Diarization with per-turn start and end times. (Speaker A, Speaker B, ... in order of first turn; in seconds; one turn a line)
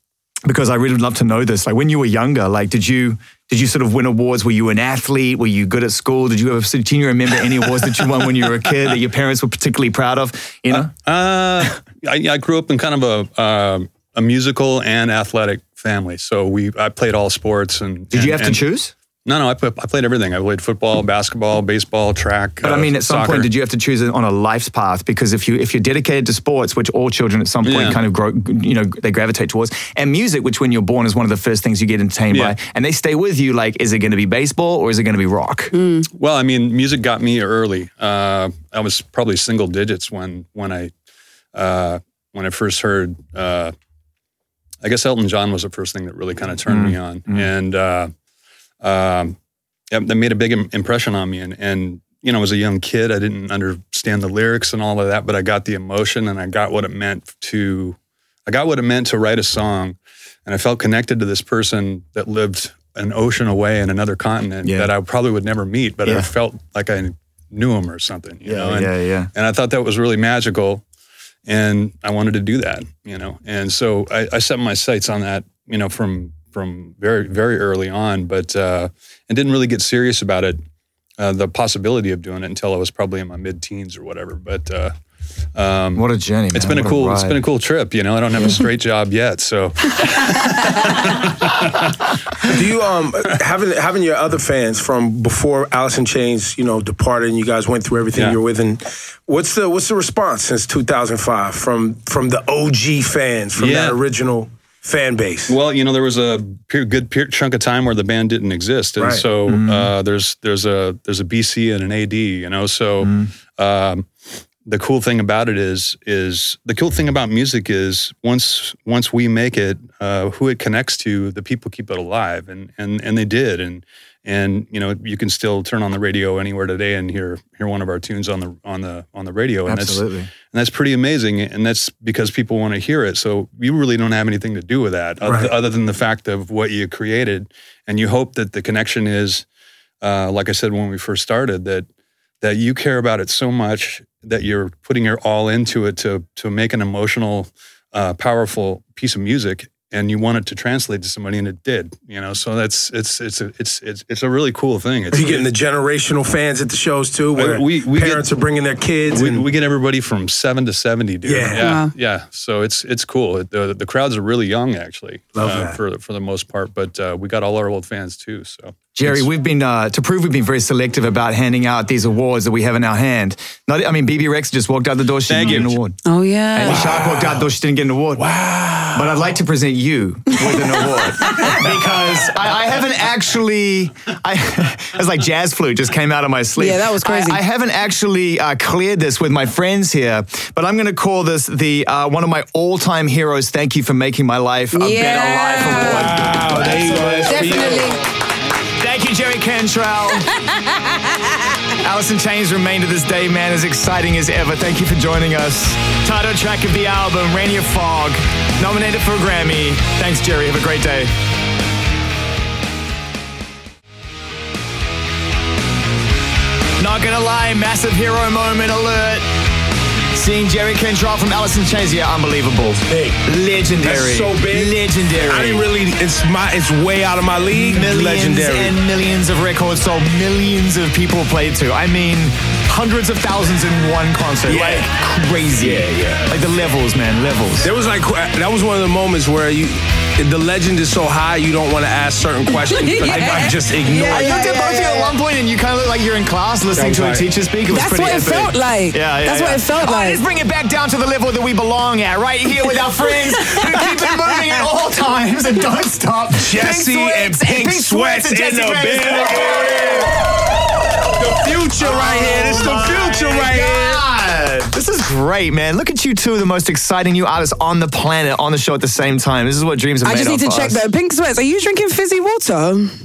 Speaker A: 0.5-10.9
Speaker B: 10.7-18.6
Speaker A: 18.1-18.9
Speaker B: 19.2-23.5
Speaker A: 22.6-35.7
Speaker B: 27.6-28.0
Speaker B: 32.3-32.5
Speaker B: 36.1-40.9
Speaker B: 41.5-43.7
Speaker B: 44.8-48.1
Speaker A: 46.6-47.5
Speaker B: 48.8-49.4
Speaker B: 49.9-70.8
Speaker A: 64.6-64.9
Speaker A: 68.4-69.3
Speaker B: 71.5-80.6
Speaker B: 81.2-84.9
Speaker B: 85.5-91.9
Speaker A: 86.0-87.4
Speaker C: 92.5-105.5
Speaker B: 98.1-98.4
Speaker B: 103.5-104.0
Speaker B: 105.5-114.1
Speaker C: 109.0-109.2
Speaker A: 109.5-109.9
Speaker A: 113.0-113.3
Speaker B: 114.7-139.4
Speaker A: 129.7-130.3
Speaker C: 135.2-135.5
Speaker B: 140.0-141.9
Speaker B: 142.4-155.5
Speaker C: 155.1-159.5
Speaker B: 157.3-158.3
Speaker B: 159.1-169.2
Speaker C: 161.2-161.7
Speaker D: 161.5-161.9
Speaker C: 165.3-165.8
Speaker A: 168.9-176.0
Speaker B: 175.3-175.8
Speaker D: 176.0-176.9
Speaker A: 176.5-178.2
Speaker C: 176.6-177.4
Speaker C: 178.2-179.1
Speaker A: 178.9-197.2
Speaker D: 186.6-187.4
Speaker D: 194.7-198.0
Speaker C: 195.8-197.9
Speaker A: 198.8-200.3
Speaker A: 201.8-211.1
Speaker A: 216.8-219.2
Speaker A: 220.1-225.7
Speaker C: 222.9-223.2
Speaker C: 223.8-228.7
Speaker A: 227.5-237.7
Speaker C: 234.5-234.8
Speaker C: 235.6-236.2
Speaker C: 237.6-244.5
Speaker D: 242.5-245.1
Speaker A: 244.1-260.1
Speaker C: 246.8-247.2
Speaker D: 247.7-250.2
Speaker C: 256.4-260.1
Speaker C: 261.2-264.0
Speaker A: 261.8-270.8
Speaker D: 261.9-262.4
Speaker D: 270.0-272.9